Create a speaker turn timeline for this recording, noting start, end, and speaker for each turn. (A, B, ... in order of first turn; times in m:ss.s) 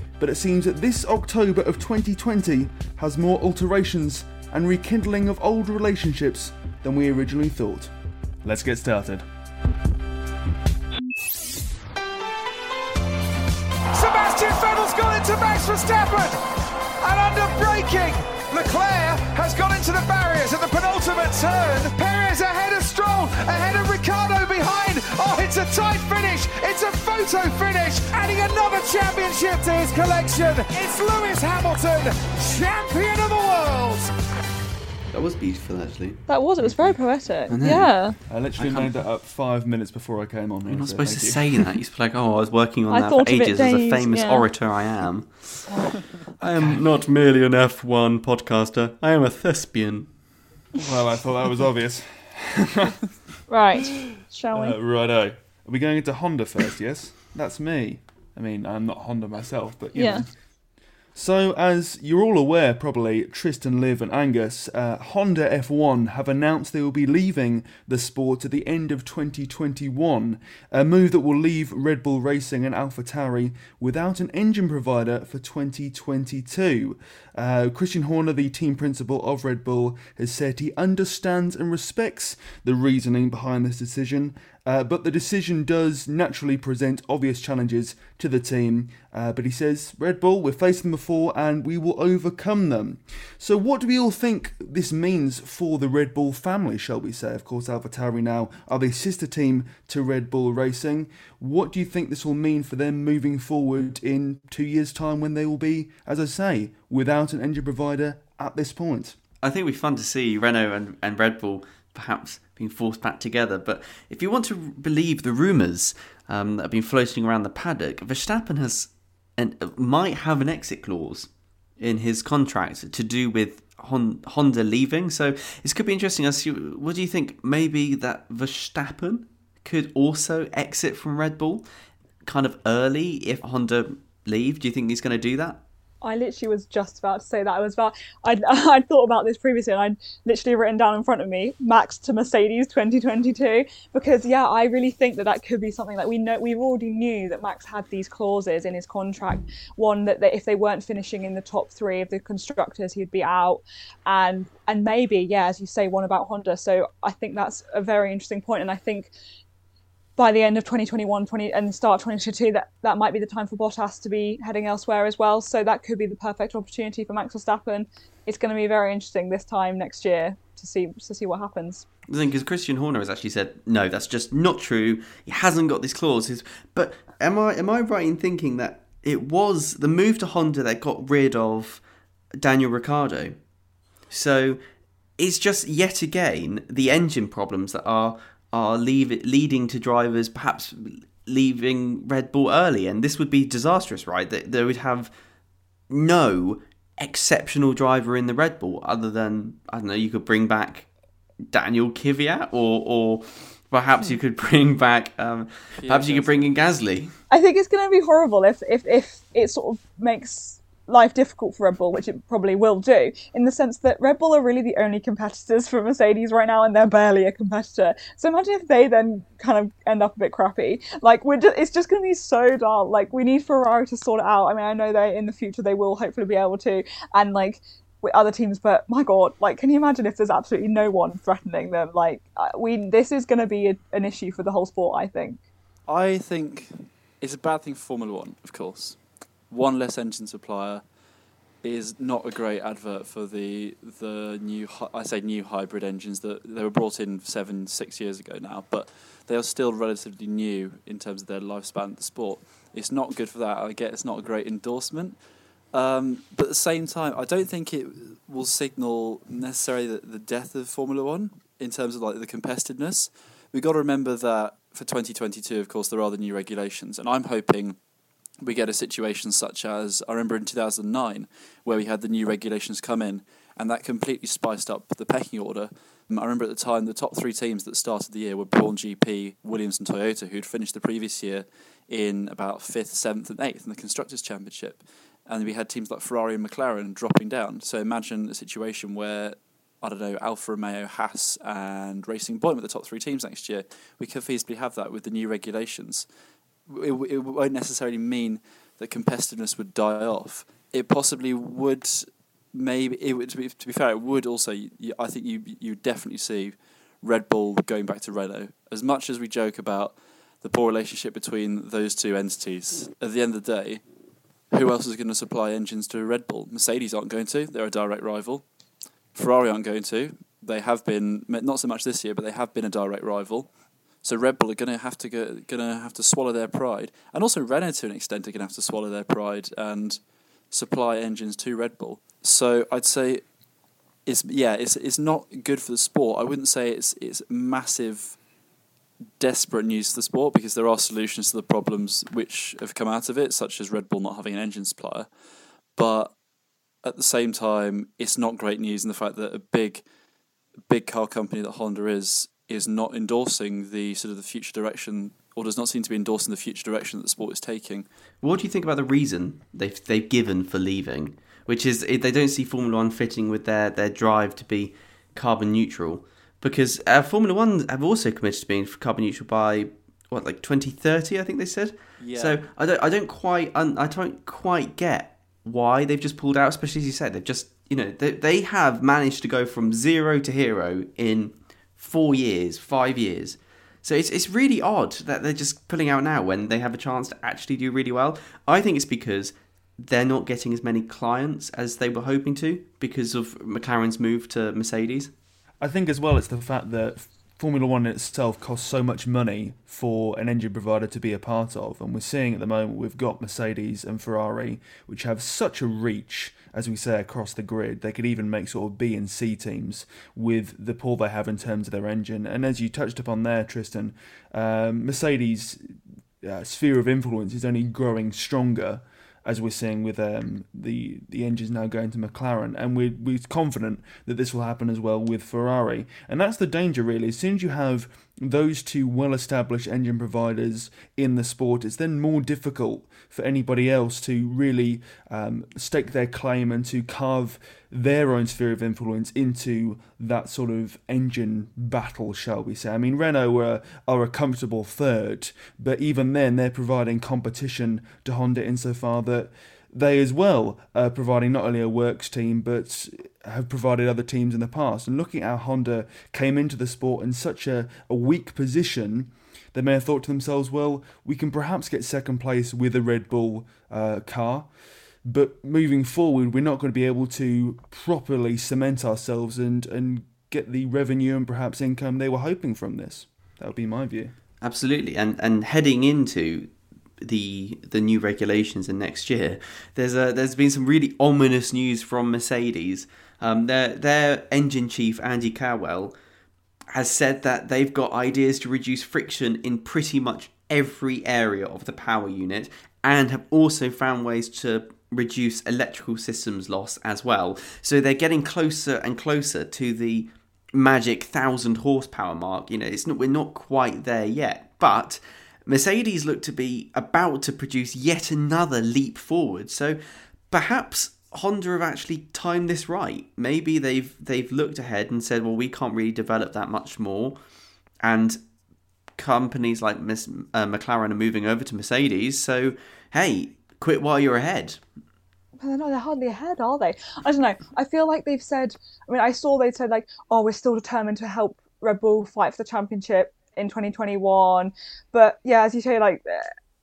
0:00.2-0:07.9 A
0:08.4-0:09.2 A
0:13.9-0:16.4 B
0:17.0-0:34.1 B
0:35.1-0:36.2 C
0:36.3-0:38.2 D
0:36.6-0:37.0 A
0:37.5-0:37.9 C
0:38.3-0:41.8 A
0:38.6-0:38.9 C
0:40.7-0:50.1 C
0:42.9-0:44.5 D
0:50.7-0:53.0 A
0:53.5-0:54.8 D
0:54.5-1:00.3 A
1:00.0-1:00.2 D
1:01.1-1:49.2 A
1:49.4-2:11.6 C
2:12.2-2:15.6 C
2:16.0-2:39.1 D
2:40.2-2:51.8 D
2:52.1-3:01.8 C
3:02.4-3:03.4 C
3:04.1-3:04.6 C
3:05.2-3:15.1 C
3:15.9-3:20.9 C
3:21.5-3:27.1 C
3:25.8-3:26.6 E
3:27.3-3:55.4 D
3:55.9-3:59.0 E
3:59.5-4:00.8 E
4:01.6-4:15.2 E
4:15.7-4:27.8 E
4:28.4-4:56.1 E
4:56.7-5:13.8 E
5:14.5-5:18.4 E
5:19.1-5:23.5 E
5:24.0-5:30.0 E
5:30.5-5:33.2 E
5:34.0-5:38.2 E
5:39.2-5:45.1 E
5:45.8-5:46.1 E
5:46.8-5:49.8 E
5:50.7-5:57.8 E
5:58.2-6:35.1 C
6:12.0-6:12.4 E
6:35.6-7:44.5 A
7:45.0-7:54.1 A
7:54.4-8:05.9 C
8:06.7-8:29.8 C
8:30.3-8:37.2 C
8:37.8-8:38.2 C
8:39.0-8:44.6 C
8:45.4-8:56.3 D